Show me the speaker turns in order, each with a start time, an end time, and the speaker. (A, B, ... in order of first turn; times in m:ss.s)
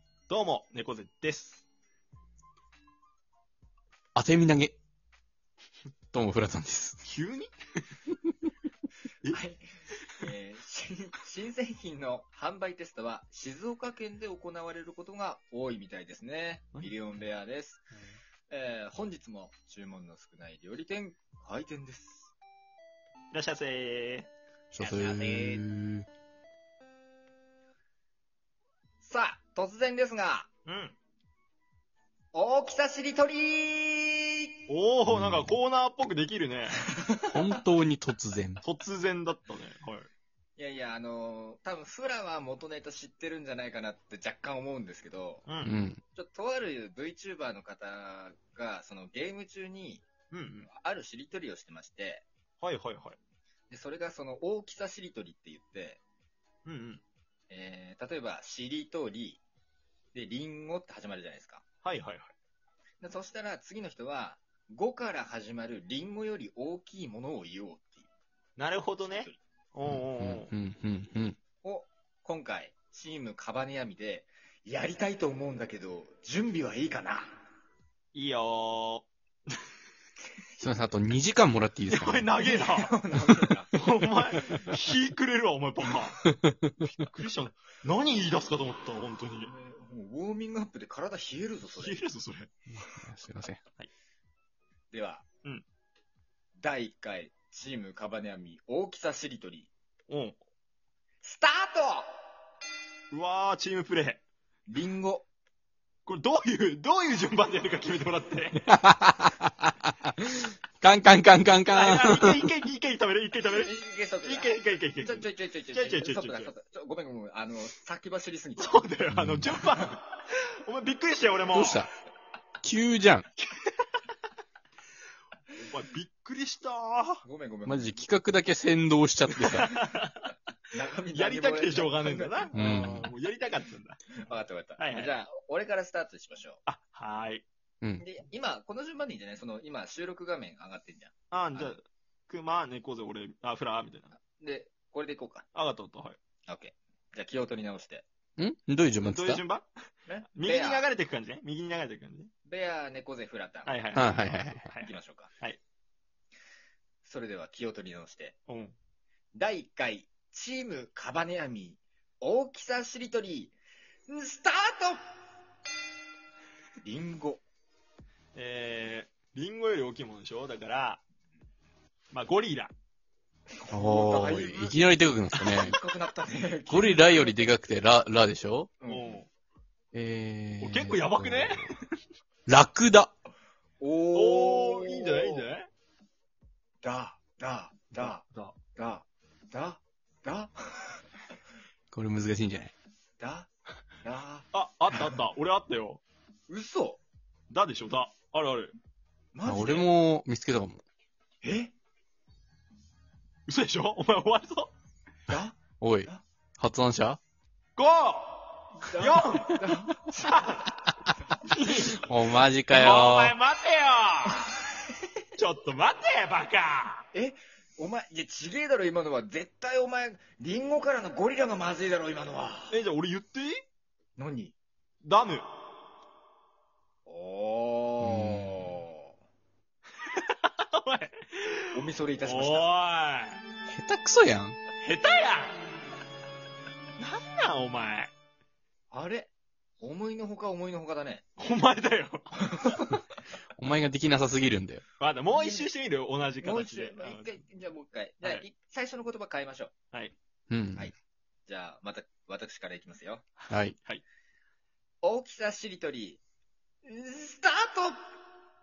0:00.3-0:01.6 A
0:04.1-0:04.7 B
0:06.1-0:07.0 B
0:07.0-0:07.5 A
0:09.3-0:09.6 C
0:10.2-0:17.8 C
0:18.5-0:22.3 C
0:23.3-0:24.3 A
0:24.7-0:26.1 B
0:24.8-0:25.6 C
0:29.0-0:30.5 C
0:30.6-0:31.0 A
0:32.3-0:34.6 C
0:34.7-0:36.8 A
0:35.1-0:35.6 B
0:36.9-0:37.4 C
0:37.3-0:38.6 B
0:38.6-0:40.1 A
0:40.6-0:45.4 C
0:45.4-0:45.8 A
0:45.6-0:46.0 B
0:46.1-0:50.0 C
0:50.3-0:50.7 A
0:50.7-0:52.2 C
0:52.6-0:53.2 A
0:53.7-0:56.0 C
0:56.6-0:57.0 A
0:57.5-0:59.4 C
1:00.1-1:01.6 C
1:01.8-1:02.3 A
1:03.0-1:08.1 C
1:08.6-1:10.5 A
1:09.9-1:11.4 B
1:11.6-1:17.4 C
1:18.1-1:19.1 A
1:20.6-1:22.3 B
1:21.9-1:22.9 A
1:22.4-1:23.7 C
1:23.7-1:26.2 A
1:26.2-1:26.8 B
1:26.8-1:29.5 A
1:29.4-1:32.0 C
1:31.8-1:32.5 A
1:32.7-1:33.6 B
1:34.9-1:35.2 C
1:36.6-1:39.7 C
1:40.1-1:40.4 A
1:41.2-1:42.1 C
1:43.1-1:44.2 A
1:44.7-1:45.3 C
1:46.0-1:48.7 A
1:48.7-1:49.5 B
1:50.8-1:52.4 B
1:51.7-1:53.7 A
1:53.5-1:58.8 C
1:54.2-1:56.5 A
1:58.6-2:01.8 A
1:59.1-1:59.5 B
2:01.5-2:01.9 B
2:02.6-2:03.2 B
2:03.4-2:03.9 A
2:05.6-2:07.2 A
2:07.2-2:08.0 C
2:07.6-2:09.7 B
2:09.5-2:10.3 A
2:10.7-2:12.5 C
2:11.1-2:14.0 A
2:12.5-2:13.1 B
2:14.2-2:16.6 C
2:14.8-2:15.1 A
2:16.6-2:17.4 A
2:18.0-2:21.8 C
2:21.3-2:24.1 A
2:24.3-2:25.4 C
2:25.5-2:26.2 A
2:26.5-2:28.0 C
2:28.4-2:29.4 B
2:29.0-2:29.7 A
2:30.0-2:30.8 C
2:30.3-2:32.3 A
2:32.4-2:35.3 C
2:33.6-2:34.1 A
2:34.0-2:34.6 B
2:34.6-2:35.6 A
2:37.0-2:38.3 C
2:38.5-2:38.8 A
2:39.3-2:43.5 C
2:44.1-2:45.0 C
2:46.8-2:47.4 C
2:48.3-2:51.0 A
2:52.1-2:52.7 A
2:53.6-2:54.8 C
2:53.7-2:55.8 B
2:55.3-2:57.5 C
2:56.7-2:58.7 B
2:58.8-2:59.2 C
2:58.9-2:59.3 A
2:59.9-3:01.7 B
3:00.6-3:01.9 A
3:02.4-3:03.1 B
3:03.8-3:05.5 C
3:04.1-3:05.7 A
3:06.8-3:11.0 C
3:07.9-3:08.5 A
3:11.9-3:12.7 B
3:13.2-3:13.5 C
3:14.0-3:15.1 C
3:14.5-3:16.0 A
3:16.5-3:17.0 C
3:17.5-3:18.7 A
3:19.3-3:19.9 C
3:19.4-3:20.8 B
3:21.4-3:21.7 C
3:23.5-3:24.7 A
3:25.3-3:26.2 C
3:25.8-3:27.2 B
3:27.8-3:29.5 A
3:28.8-3:30.6 C
3:30.3-3:30.7 A
3:31.4-3:32.0 A
3:31.9-3:33.3 B
3:32.7-3:34.5 A
3:35.4-3:37.0 A
3:37.1-3:42.8 C
3:42.7-3:43.6 A
3:44.2-3:44.5 C
3:45.0-3:45.5 A
3:47.0-3:49.1 C
3:48.0-3:48.8 B
3:50.0-3:53.4 A
3:51.7-3:52.7 C
3:53.7-3:54.6 B
3:54.8-3:55.6 A
3:57.0-3:58.1 A
3:58.9-4:01.4 C
4:01.4-4:02.7 A
4:02.4-4:03.0 C
4:03.6-4:04.8 B
4:05.0-4:07.3 A
4:05.3-4:05.7 C
4:06.4-4:09.7 C
4:10.5-4:10.9 B
4:11.5-4:13.2 C
4:13.5-4:13.8 B
4:15.0-4:16.2 C
4:16.8-4:18.0 C